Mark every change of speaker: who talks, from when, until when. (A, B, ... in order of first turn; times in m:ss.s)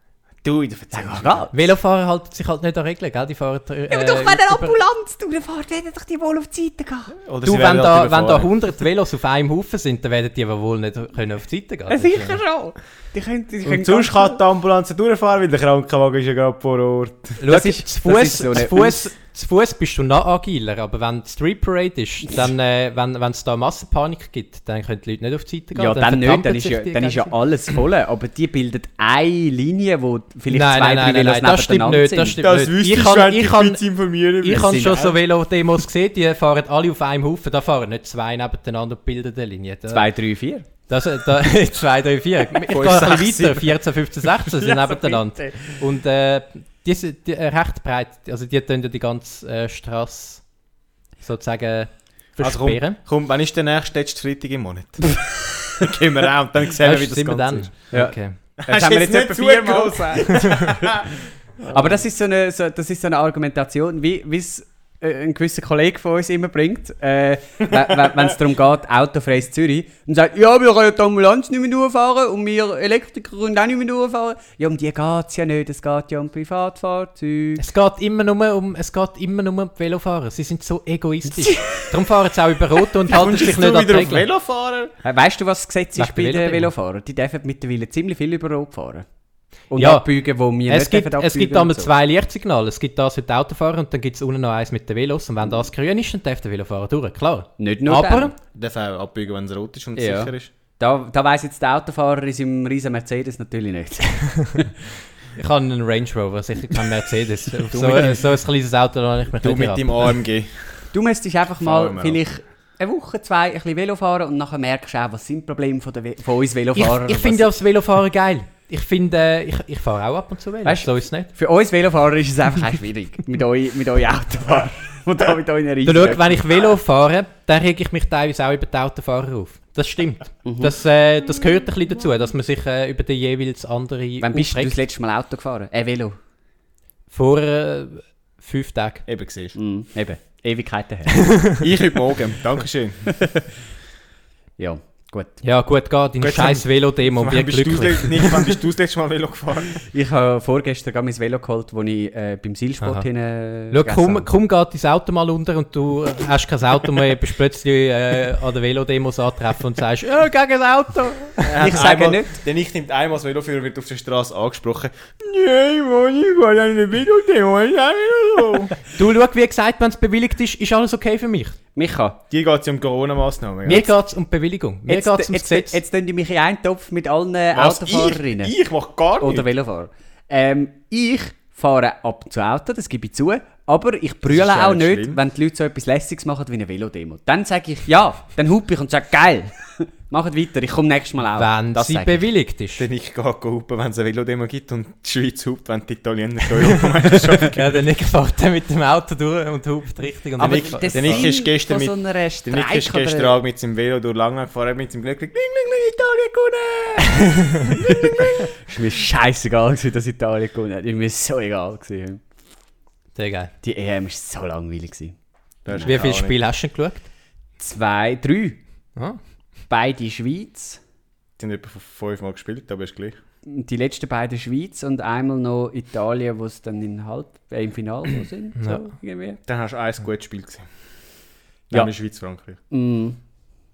0:00.4-0:01.4 A
0:00.9-0:01.5 B
0:01.5-0:04.8 C
0:03.9-0:07.1 B
0:07.2-0:08.5 A
0:07.4-0:12.4 C
0:11.9-0:14.4 B
0:13.6-0:17.4 A
0:17.4-0:27.3 C
0:17.5-0:19.0 B
0:25.7-0:32.4 B
0:30.5-0:33.9 C
0:32.4-0:35.1 A
0:34.4-0:40.1 C
0:34.5-0:35.1 B
0:39.9-0:40.6 B
0:40.6-0:50.5 C
0:42.7-0:43.8 A
0:44.5-0:45.1 A
0:51.2-0:53.0 C
0:52.4-0:57.9 A
0:56.8-0:58.4 C
0:57.9-1:01.0 B
0:58.6-1:02.0 A
1:01.7-1:17.6 B
1:17.6-1:24.2 C
1:21.4-1:21.8 B
1:23.1-1:24.9 A
1:25.0-1:29.0 B
1:26.0-1:26.7 C
1:29.7-1:31.9 B
1:29.8-1:30.1 C
1:30.6-1:38.3 C
1:37.6-1:38.3 B
1:38.5-1:40.5 A
1:40.0-1:44.7 B
1:45.3-1:50.1 C
1:47.7-1:48.2 A
1:49.4-1:50.9 A
1:50.9-1:57.5 B
1:51.6-1:52.2 A
1:56.7-2:01.3 C
2:00.6-2:06.4 B
2:05.8-2:14.8 C
2:10.4-2:10.7 B
2:14.2-2:16.2 B
2:17.1-2:19.0 C
2:19.1-2:19.5 A
2:19.5-2:21.4 B
2:21.6-2:23.2 A
2:24.6-2:25.4 B
2:25.4-2:28.5 C
2:26.2-2:29.8 A
2:29.9-2:34.3 B
2:32.8-2:33.1 C
2:33.7-2:41.5 C
2:41.4-2:48.8 A
2:41.6-2:42.3 B
2:48.9-2:51.6 C
2:51.7-2:52.2 B
2:52.3-2:53.9 A
2:53.6-2:55.8 C
2:54.9-2:58.5 B
2:57.5-2:59.5 A
2:59.2-3:12.2 B
3:04.3-3:05.2 A
3:11.4-3:12.8 C
3:12.8-3:17.8 A
3:17.5-3:21.3 C
3:20.4-3:23.4 B
3:20.4-3:28.4 A
3:27.9-3:32.2 B
3:33.1-3:33.5 C
3:33.6-3:35.1 B
3:35.6-3:36.4 A
3:35.7-3:35.9 B
3:35.8-3:37.1 C
3:37.6-3:38.6 B
3:39.7-3:40.8 B
3:41.4-3:43.2 A
3:43.4-3:49.4 B
3:48.6-3:48.9 C
3:49.5-3:50.6 A
3:51.7-3:52.6 A
3:52.7-3:53.2 B